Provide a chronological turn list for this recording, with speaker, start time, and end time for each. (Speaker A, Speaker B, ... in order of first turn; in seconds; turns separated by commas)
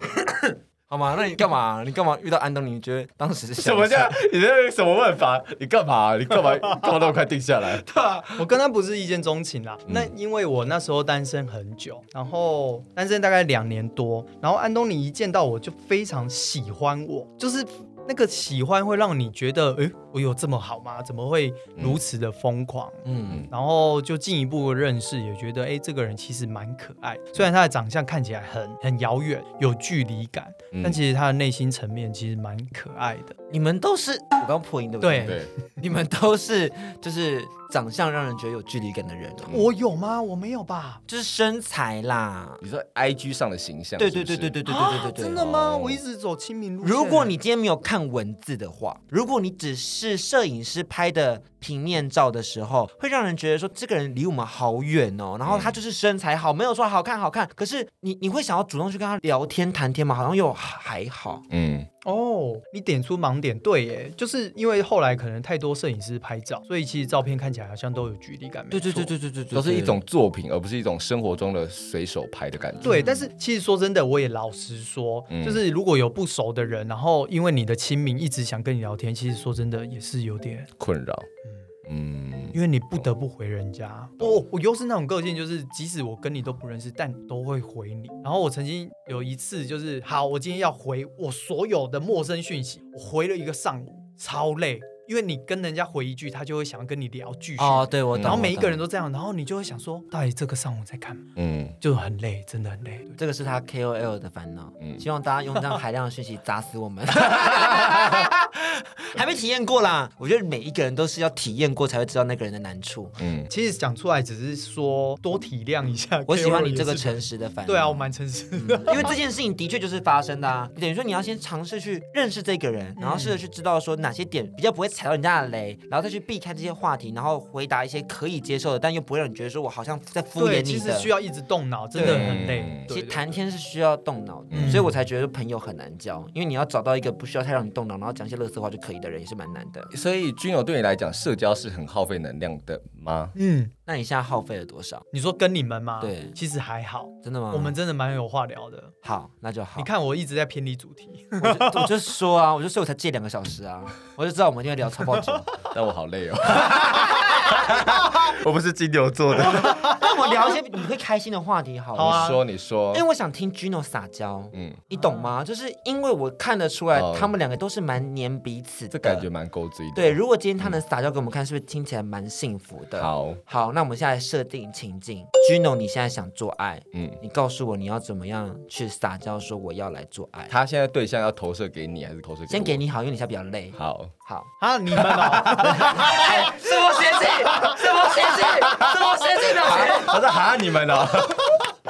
Speaker A: 0.3-4.2, Speaker B: 3.6-7.8, Speaker A: 7.9-8.4, Speaker C: 8.3-33.4, Speaker A: 23.0-23.4, Speaker B: 30.7-31.0, Speaker A: 33.5-39.5, Speaker C: 35.0-35.4, Speaker B: 35.2-35.5, Speaker C: 39.5-41.0, Speaker A: 41.1-42.6, Speaker B: 42.6-44.6, Speaker A: 44.0-45.5, Speaker C: 44.6-47.3, Speaker B: 45.5-46.0, Speaker A: 46.8-61.4, Speaker B: 55.4-55.8, Speaker B: 61.5-61.9, Speaker C: 62.0-69.1, Speaker A: 68.7-70.0, Speaker B: 69.5-73.1, Speaker A: 72.8-73.2, Speaker C: 72.8-80.7, Speaker B: 75.3-75.6, Speaker B: 80.8-81.3, Speaker B: 81.8-82.5, Speaker C: 82.5-101.3, Speaker A: 97.6-98.8, Speaker B: 98.1-98.4, Speaker B: 101.3-101.7, Speaker C: 101.8-103.2, Speaker A: 103.2-113.1, Speaker B: 113.2-113.5, Speaker C: 113.5-119.1, Speaker A: 116.3-118.0, Speaker A: 118.5-131.1, Speaker C: 123.0-123.4, Speaker C: 130.4-133.3, Speaker A: 131.9-139.9, Speaker B: 132.0-132.8, Speaker B: 134.5-134.9, Speaker C: 134.6-134.9, Speaker B: 139.9-143.3, Speaker C: 143.3-143.7, Speaker A: 143.8-145.0, Speaker C: 145.1-148.9, Speaker A: 146.0-146.3, Speaker A: 147.2-147.7, Speaker A: 149.0-149.9, Speaker C: 149.8-151.9, Speaker A: 151.4-155.5, Speaker B: 155.7-160.0, Speaker A: 159.5-162.3, Speaker C: 161.9-162.4, Speaker B: 162.0-163.0, Speaker A: 162.9-169.3, Speaker B: 164.5-164.8, Speaker C: 164.9-165.3, Speaker B: 166.9-167.3, Speaker B: 168.9-170.8, Speaker A: 169.9-180.5, Speaker B: 173.0-173.4, Speaker B: 176.9-177.2, Speaker B: 180.5-182.8, Speaker A: 182.5-184.5, Speaker B: 183.7-184.1, Speaker C: 184.6-186.4, Speaker A: 185.8-190.1, Speaker B: 188.6-191.5